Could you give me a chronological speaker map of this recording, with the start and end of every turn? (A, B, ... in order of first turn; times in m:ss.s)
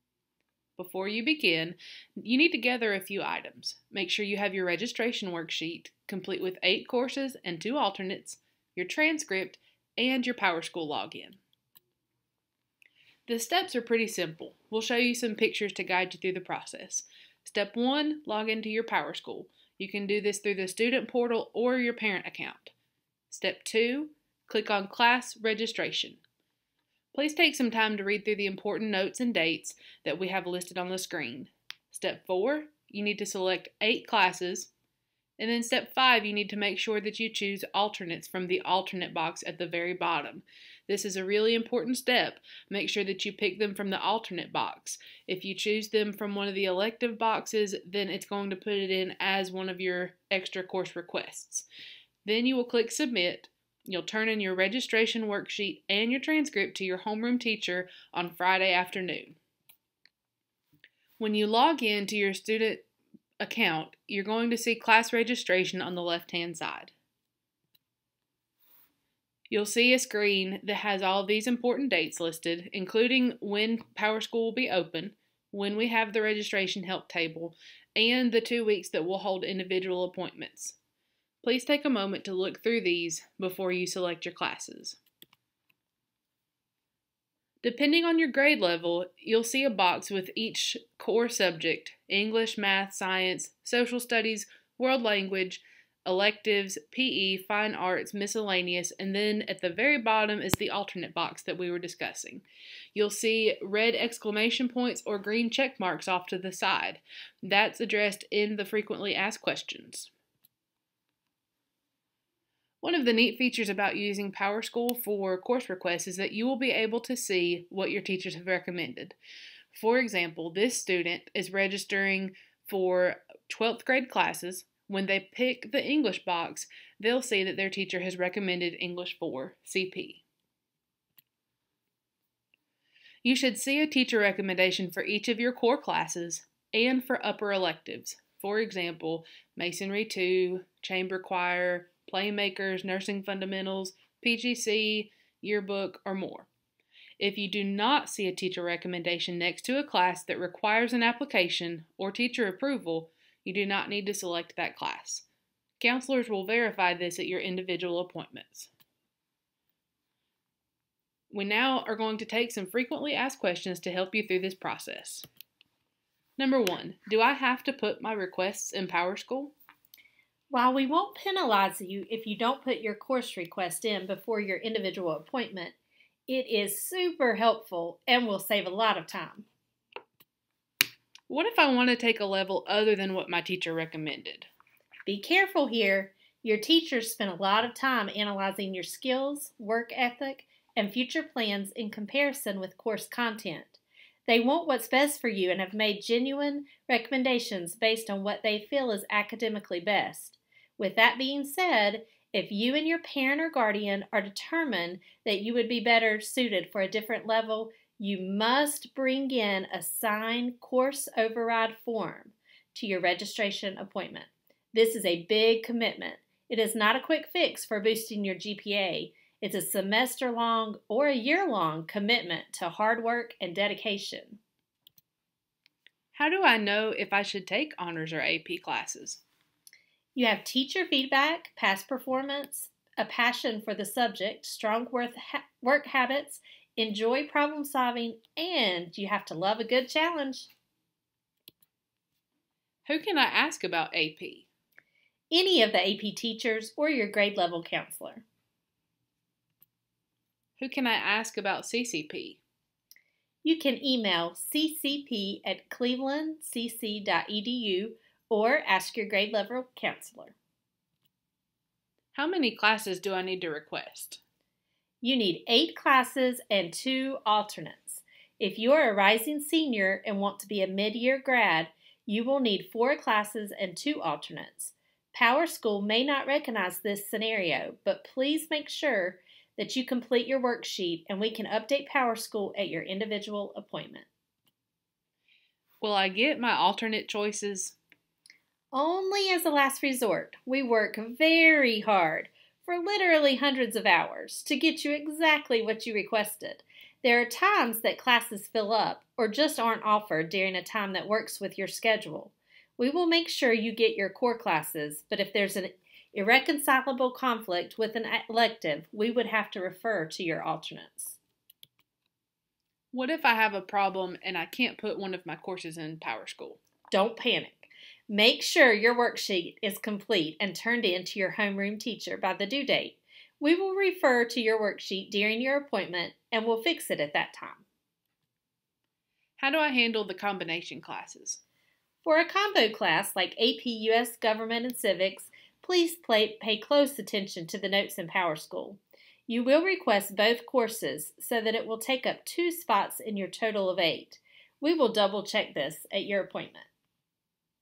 0:00.8-0:11.4 A
0:13.3-0:22.7 A
0:23.3-0:26.2 A
0:27.1-0:34.7 A
0:35.4-0:51.6 A
0:52.2-0:59.4 A
1:01.2-1:02.9 A
1:03.4-1:06.9 A
1:09.5-1:20.8 A
1:21.4-1:25.0 A
1:27.6-1:42.4 A
1:42.9-1:50.1 A
1:52.8-1:59.2 A
1:59.7-2:10.2 A
2:13.2-2:26.5 A
2:27.2-2:35.2 A
2:35.8-2:38.7 A
2:41.3-2:45.2 A
2:46.4-2:49.5 A
2:50.5-2:55.8 B
2:56.3-2:59.5 B
3:01.3-3:04.5 A
3:05.0-3:44.4 B
3:46.1-3:49.2 A
3:50.1-4:00.5 B
4:02.8-4:04.5 A
4:05.3-4:08.2 B
4:10.6-4:12.4 A
4:13.4-4:20.4 B
4:22.1-4:24.2 A
4:25.0-4:44.1 B
4:45.8-4:47.8 A
4:48.7-5:11.2 B
5:12.9-5:16.6 A
5:16.9-5:27.6 B
5:29.4-5:31.4 A
5:32.0-5:46.7 B